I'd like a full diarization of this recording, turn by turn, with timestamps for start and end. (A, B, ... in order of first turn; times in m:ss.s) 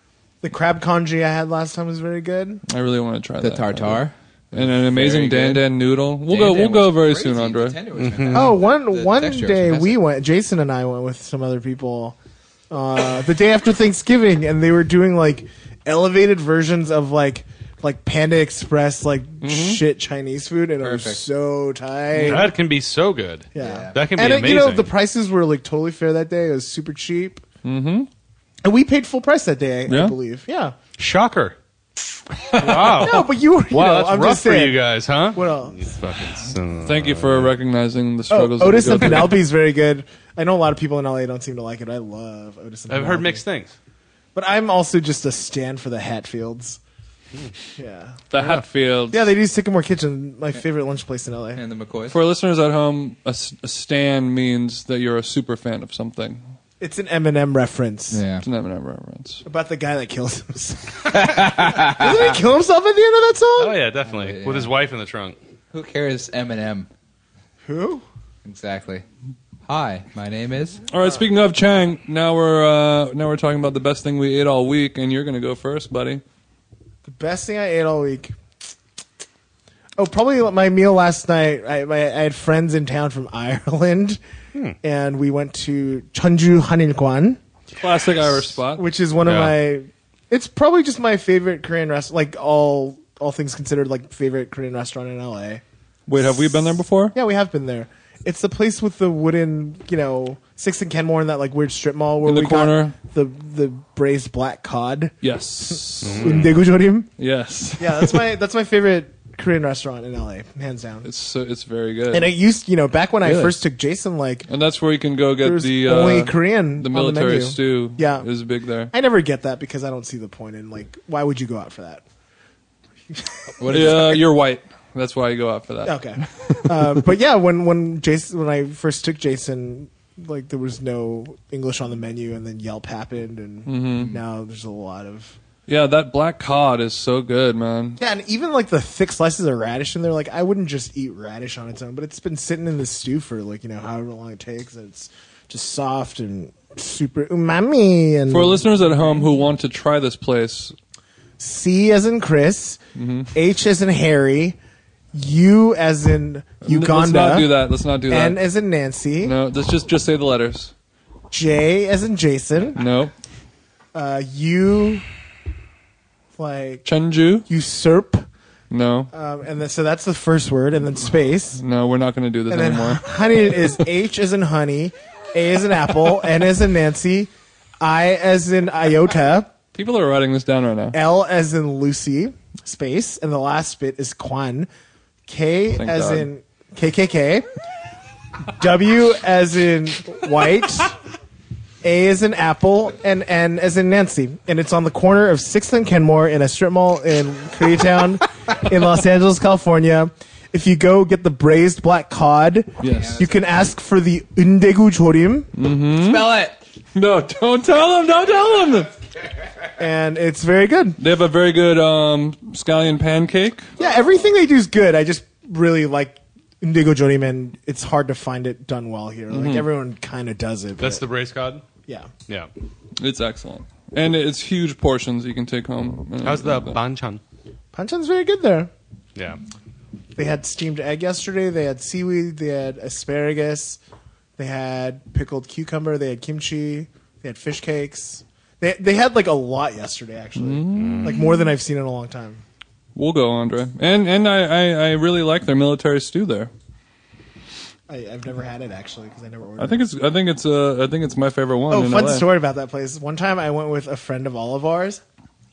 0:00.4-0:02.6 A
0:02.7-0:04.0 B
0:03.4-0:05.7 C
0:04.5-0:07.8 B
0:06.3-0:10.0 C
0:08.0-0:08.6 D
0:08.3-0:12.2 A
0:12.7-0:22.5 A
0:19.4-0:19.8 B
0:20.8-0:21.2 C
0:22.1-0:22.5 B
0:22.2-0:24.9 D
0:23.6-0:27.4 A
0:23.6-0:24.0 C
0:27.6-0:28.1 B
0:28.6-0:30.8 A
0:29.9-0:30.2 B
0:31.0-0:31.6 D
0:32.5-0:37.5 D
0:32.6-0:34.8 A
0:35.3-0:35.9 A
0:36.8-0:39.4 B
0:38.3-0:43.4 A
0:42.9-0:43.8 D
0:44.4-0:46.8 A
0:47.8-0:48.6 A
0:48.3-0:49.3 B
0:49.1-0:51.6 A
0:51.5-0:52.2 C
0:52.1-0:56.4 B
0:56.8-0:58.2 A
0:58.1-0:58.4 C
0:58.4-0:59.4 B
0:59.4-1:03.8 A
1:01.1-1:02.4 C
1:03.6-1:05.4 D
1:04.1-1:04.7 C
1:05.7-1:06.9 C
1:07.6-1:08.0 A
1:08.4-1:09.0 C
1:09.6-1:10.8 C
1:10.9-1:16.2 B
1:17.1-1:18.3 A
1:20.0-1:24.2 A
1:24.8-1:27.4 A
1:27.7-1:28.9 B
1:28.8-1:35.6 A
1:29.2-1:29.6 D
1:36.1-1:37.2 B
1:37.1-1:47.1 A
1:42.2-1:43.0 B
1:45.2-1:46.5 B
1:46.0-1:46.5 D
1:47.2-1:48.3 B
1:47.8-1:51.1 A
1:51.0-1:52.3 B
1:52.1-1:54.5 A
1:53.2-1:53.6 B
1:54.5-1:58.9 B
1:55.4-1:58.3 A
1:58.9-2:02.0 A
2:03.1-2:04.0 A
2:03.6-2:04.2 C
2:03.7-2:07.0 B
2:05.8-2:15.4 A
2:13.7-2:14.2 B
2:15.7-2:18.0 B
2:18.0-2:29.2 A
2:28.3-2:30.8 B
2:31.4-2:32.8 A
2:33.0-2:33.3 B
2:33.3-2:34.6 A
2:35.1-2:37.6 A
2:36.6-2:38.4 B
2:38.1-2:39.4 A
2:39.2-2:40.7 B
2:41.3-2:42.8 A
2:42.8-2:43.1 B
2:43.9-2:45.0 A
2:46.4-2:46.9 A
2:46.8-2:47.5 B
2:47.5-2:48.2 A
2:48.7-2:49.1 B
2:49.1-2:51.6 A
2:51.6-2:53.0 B
2:52.5-2:59.5 A
2:59.7-3:01.0 B
3:00.9-3:04.7 A
3:05.3-3:07.5 A
3:05.8-3:06.3 B
3:08.5-3:11.0 A
3:11.8-3:25.5 A
3:22.8-3:23.2 B
3:22.8-3:23.7 C
3:25.6-3:26.4 B
3:25.9-3:26.6 C
3:27.0-3:29.0 B
3:29.8-3:31.0 A
3:31.0-3:33.7 B
3:33.8-3:41.0 A
3:39.3-3:39.7 B
3:40.8-3:41.6 D
3:43.0-3:46.8 B
3:46.2-3:47.2 D
3:47.7-3:48.7 A
3:50.2-3:53.8 A
3:54.4-4:02.4 A
4:00.4-4:01.3 B
4:00.8-4:01.3 D
4:03.0-4:06.5 B
4:07.9-4:09.8 A
4:09.6-4:12.3 B
4:11.7-4:15.0 A